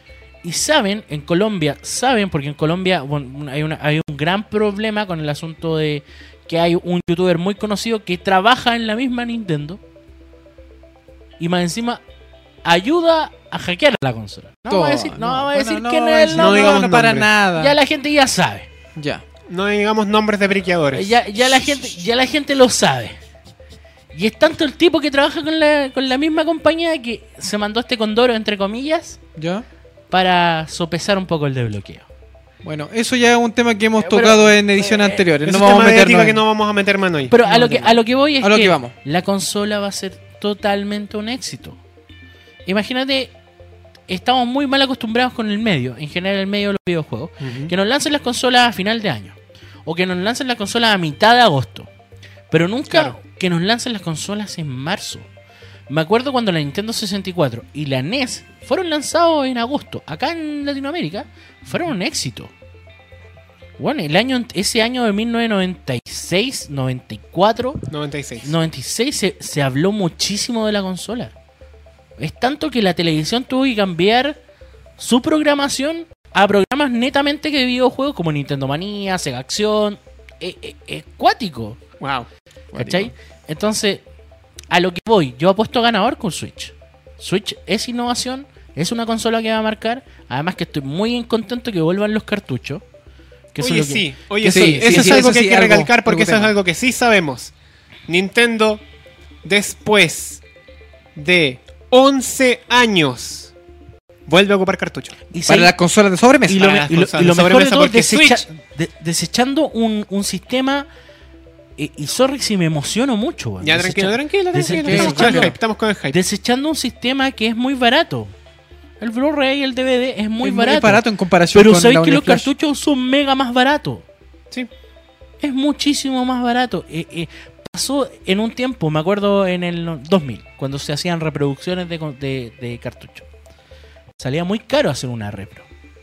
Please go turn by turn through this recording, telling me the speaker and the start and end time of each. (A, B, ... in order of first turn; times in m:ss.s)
0:00.4-0:09.8 A
0:11.4-0:12.0 A
0:12.6-0:16.9 A
0:14.7-0:17.7 B
0:16.3-0:17.3 C
0:17.5-0:18.7 A
0:19.0-0:19.2 B
0:19.5-0:21.2 C
0:20.9-0:23.1 A
0:24.1-0:29.2 A
0:29.4-0:29.6 B
0:30.1-0:32.0 A
0:32.6-0:36.4 B
0:34.0-0:35.2 A
0:35.4-0:37.3 C
0:37.3-0:41.8 A
0:37.4-0:38.9 B
0:42.6-0:43.3 A
0:44.1-0:51.9 A
0:47.4-0:47.7 C
0:52.5-0:55.2 A
0:52.9-0:53.2 C
0:55.9-1:02.5 A
1:03.8-1:07.8 A
1:07.9-1:08.5 C
1:08.4-1:11.3 A
1:12.2-1:14.4 A
1:15.0-1:21.8 A
1:22.0-1:22.3 C
1:22.7-1:23.1 B
1:22.8-1:24.0 A
1:24.7-1:32.8 A
1:33.5-1:35.3 A
1:33.6-1:37.5 C
1:34.4-1:36.5 B
1:38.1-1:38.8 C
1:39.4-1:40.4 C
1:41.1-1:43.5 C
1:44.3-1:45.2 C
1:45.3-1:45.7 A
1:45.4-1:46.6 B
1:46.5-1:50.9 A
1:46.5-1:48.4 C
1:51.8-1:55.6 A
1:53.6-1:56.2 C
1:54.8-1:55.5 B
1:56.1-1:58.3 A
1:59.0-2:04.0 A
2:00.4-2:02.5 B
2:05.4-2:13.2 A
2:14.2-2:15.6 A